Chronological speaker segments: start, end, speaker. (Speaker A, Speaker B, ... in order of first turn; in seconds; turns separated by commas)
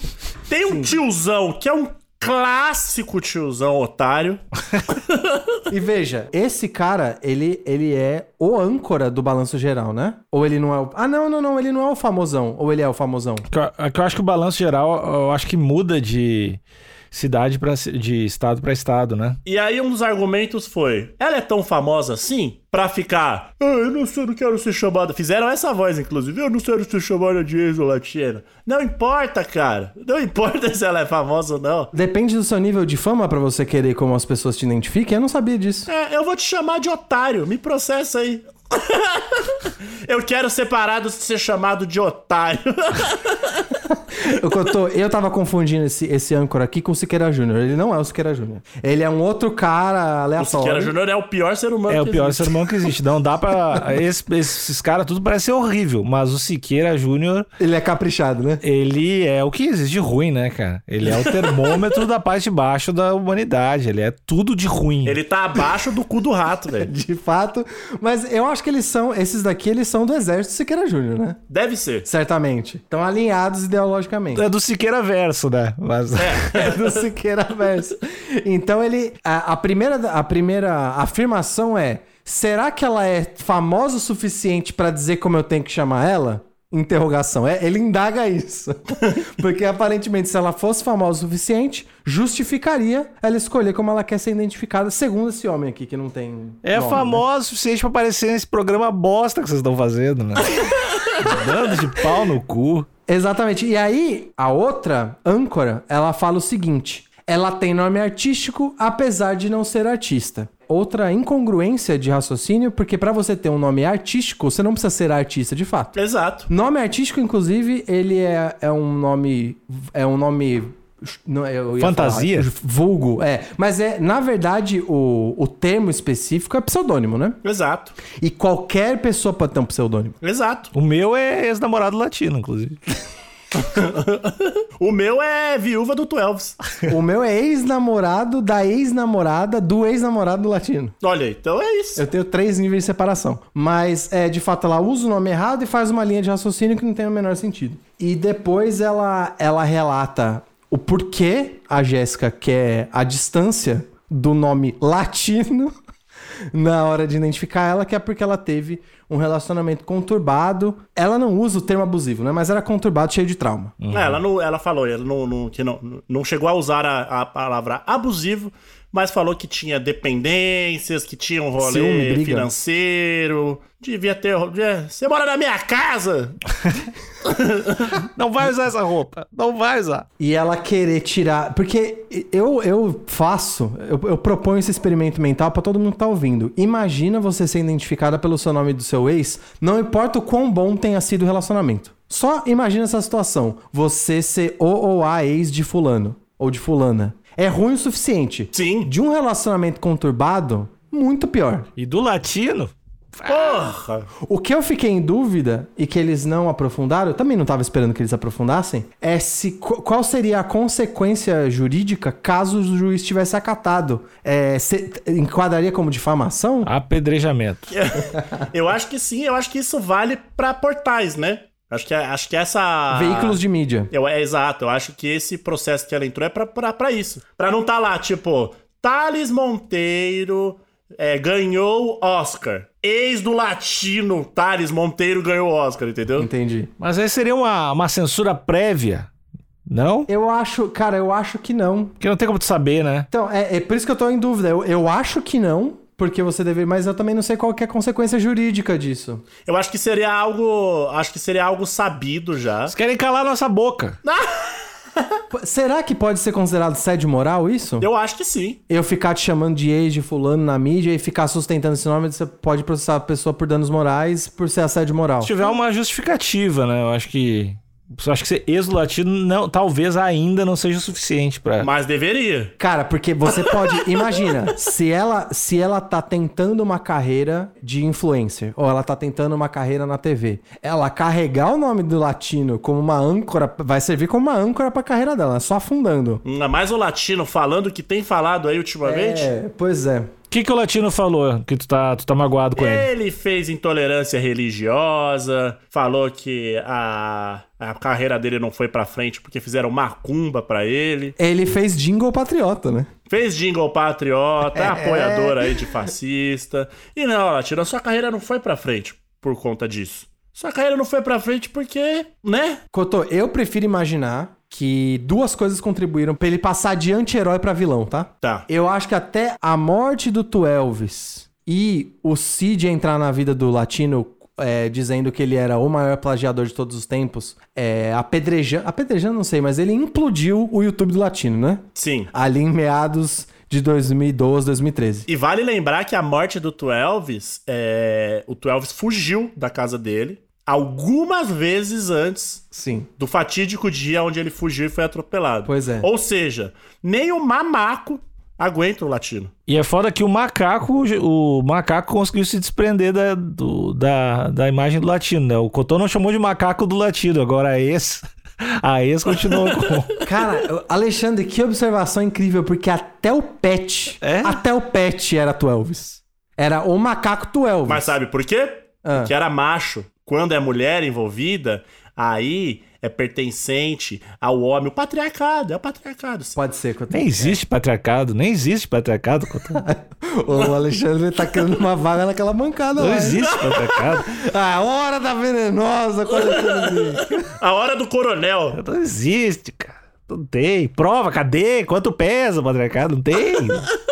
Speaker A: 0.5-5.4, Speaker B: 5.7-13.5, Speaker C: 13.5-16.6, Speaker C: 17.1-19.4, Speaker A: 19.4-31.9, Speaker B: 31.9-35.9, Speaker A: 35.9-43.7, Speaker B: 44.2-50.9, Speaker A: 50.4-52.9, Speaker C: 51.9-57.5, Speaker B: 57.6-58.6, Speaker C: 58.6-65.2, Speaker A: 65.0-66.9, Speaker B: 66.8-71.4, Speaker A: 71.5-72.1, Speaker B: 72.0-74.5, Speaker C: 74.3-76.5, Speaker A: 76.2-77.0, Speaker B: 76.5-97.2, Speaker C: 96.6-100.5, Speaker C: 101.1-102.9, Speaker B: 103.1-116.0, Speaker A: 116.0-116.5, Speaker B: 116.5-127.4, Speaker C: 121.8-122.5, Speaker A: 127.4-128.0, Speaker B: 128.2-130.2, Speaker A: 130.2-130.7, Speaker C: 130.7-132.8, Speaker A: 133.6-136.6, Speaker B: 136.9-140.9, Speaker A: 141.0-142.0, Speaker B: 142.0-155.7, Speaker B: 156.5-163.8, Speaker C: 163.8-164.2, Speaker A: 163.9-176.4, Speaker B: 171.6-172.5, Speaker A: 177.2-177.9, Speaker C: 178.2-180.1, Speaker B: 180.2-201.7, Speaker A: 198.5-198.9, Speaker C: 201.8-203.7, Speaker A: 203.3-204.1, Speaker B: 204.2-216.7, Speaker C: 216.7-217.7, Speaker A: 217.7-236.3, Speaker B: 222.9-223.9, Speaker B: 236.2-236.7, Speaker C: 236.8-239.1, Speaker C: 239.7-240.1, Speaker B: 240.1-242.0, Speaker C: 242.0-243.1, Speaker B: 243.1-249.2, Speaker A: 249.5-252.7, Speaker C: 252.7-254.0, Speaker A: 254.0-254.6, Speaker B: 255.3-257.9, Speaker A: 257.8-258.6, Speaker B: 258.7-265.4, Speaker C: 265.2-271.7, Speaker A: 271.6-272.6, Speaker B: 272.6-286.2, Speaker A: 273.4-274.3, Speaker A: 286.2-289.3, Speaker B: 288.8-290.1, Speaker C: 290.3-292.9, Speaker A: 292.6-301.1, Speaker B: 301.2-302.9, Speaker A: 303.1-312.6, Speaker B: 304.6-305.7, Speaker B: 312.7-335.1, Speaker A: 318.2-318.5, Speaker A: 331.8-332.1, Speaker A: 335.1-342.4, Speaker B: 342.5-342.9, Speaker A: 343.0-349.3, Speaker B: 345.4-345.9, Speaker C: 349.5-359.9, Speaker A: 359.3-359.7, Speaker B: 360.0-367.9, Speaker C: 364.0-364.4, Speaker A: 367.7-376.4, Speaker B: 368.8-369.1, Speaker B: 376.4-377.2, Speaker C: 376.9-379.6, Speaker B: 379.6-383.3, Speaker C: 382.8-384.1, Speaker A: 383.2-383.8, Speaker B: 384.0-387.3, Speaker A: 386.2-388.6, Speaker C: 388.5-393.7